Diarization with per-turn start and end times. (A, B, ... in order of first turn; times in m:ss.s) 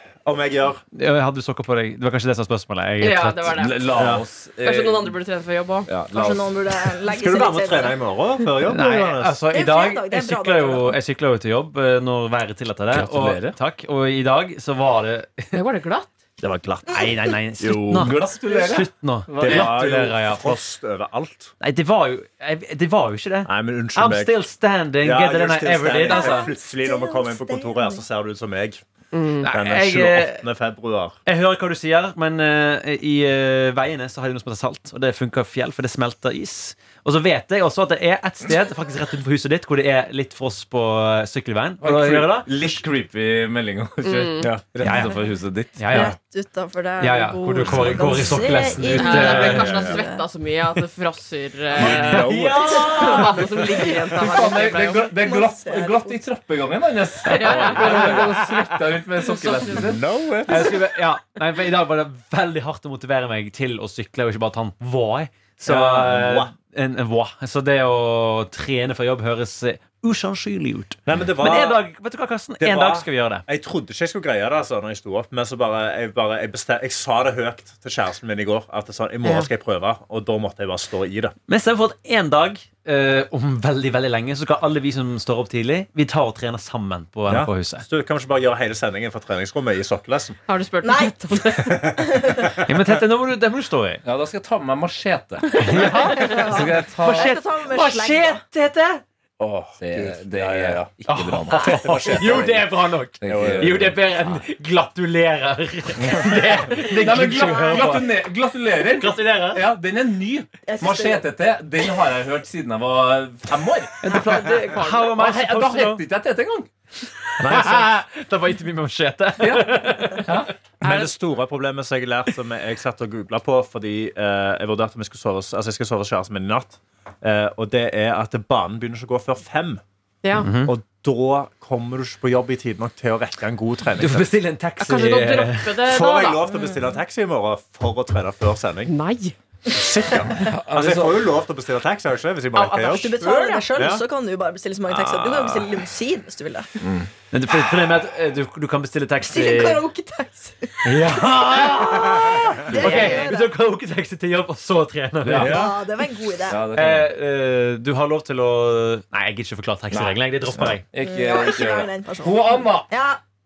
0:00.2-0:00.8 A
0:00.9-0:03.6 B
0:03.0-0:03.9 C
0:03.5-0:05.2 D
0:03.9-0:04.2 A
0:04.6-0:05.9 C
0:05.9-0:06.6 D
0:06.1-0:08.0 E
0:07.1-0:09.4 A
0:08.6-0:15.6 B
0:09.5-0:11.0 E
0:12.9-0:13.6 D
0:15.5-0:16.2 C
0:16.4-0:20.6 B
0:17.6-0:18.2 A
0:17.9-0:19.8 D
0:19.4-0:21.5 A
0:21.6-0:26.5 B
0:23.5-0:24.4 A
0:25.0-0:28.8 A
0:26.1-0:28.0 E
0:29.1-0:29.5 C
0:29.4-0:30.4 B
0:29.5-0:31.2 A
0:31.3-0:42.8 B
0:41.8-0:46.1 D
0:44.0-0:44.5 C
0:44.4-0:44.8 A
0:44.8-0:45.2 B
0:45.8-0:46.1 B
0:45.9-0:50.2 E
0:47.0-0:49.7 B
0:49.0-0:55.0 C
0:49.3-0:50.0 A
0:51.8-0:53.4 A
0:51.9-0:53.2 B
0:52.0-0:53.4 D
0:54.2-1:00.0 D
0:55.0-0:56.2 E
0:57.3-0:58.3 C
0:57.6-0:58.3 A
0:57.8-0:58.3 B
0:59.4-0:59.8 C
0:59.7-1:00.8 A
1:00.4-1:13.4 B
1:05.7-1:06.5 A
1:11.0-1:11.8 A
1:12.6-1:21.4 A
1:19.2-1:19.5 B
1:21.5-1:27.8 B
1:27.3-1:30.4 A
1:30.5-1:31.8 C
1:30.8-1:31.4 E
1:31.6-1:33.0 A
1:31.9-1:32.6 E
1:32.7-1:34.0 B
1:34.0-1:37.4 D
1:35.6-1:39.0 B
1:36.1-1:38.4 E
1:39.4-1:42.6 D
1:39.9-1:40.8 A
1:41.0-1:49.6 B
1:41.5-1:42.7 A
1:43.2-1:44.4 D
1:43.3-1:43.8 A
1:46.0-1:56.7 D
1:50.7-1:51.3 E
1:54.0-1:56.0 B
1:57.4-2:00.5 B
1:57.4-1:57.9 A
1:59.4-2:00.5 D
2:00.8-2:09.8 A
2:00.8-2:01.1 C
2:10.4-2:10.7 B
2:10.6-2:14.3 A
2:14.0-2:15.7 B
2:14.8-2:16.4 C
2:15.8-2:18.9 A
2:16.5-2:16.8 E
2:18.9-2:19.4 C
2:19.7-2:24.0 A
2:20.4-2:21.3 D
2:22.5-2:23.7 C
2:22.8-2:26.7 E
2:24.9-2:25.7 A
2:26.8-2:27.1 D
2:27.3-2:29.8 B
2:29.2-2:33.5 E
2:30.8-2:35.6 B
2:35.2-2:35.7 D
2:35.4-2:35.7 A
2:35.4-2:36.6 E
2:36.5-2:37.1 D
2:36.7-2:40.8 B
2:39.9-2:42.9 D
2:41.0-2:43.2 E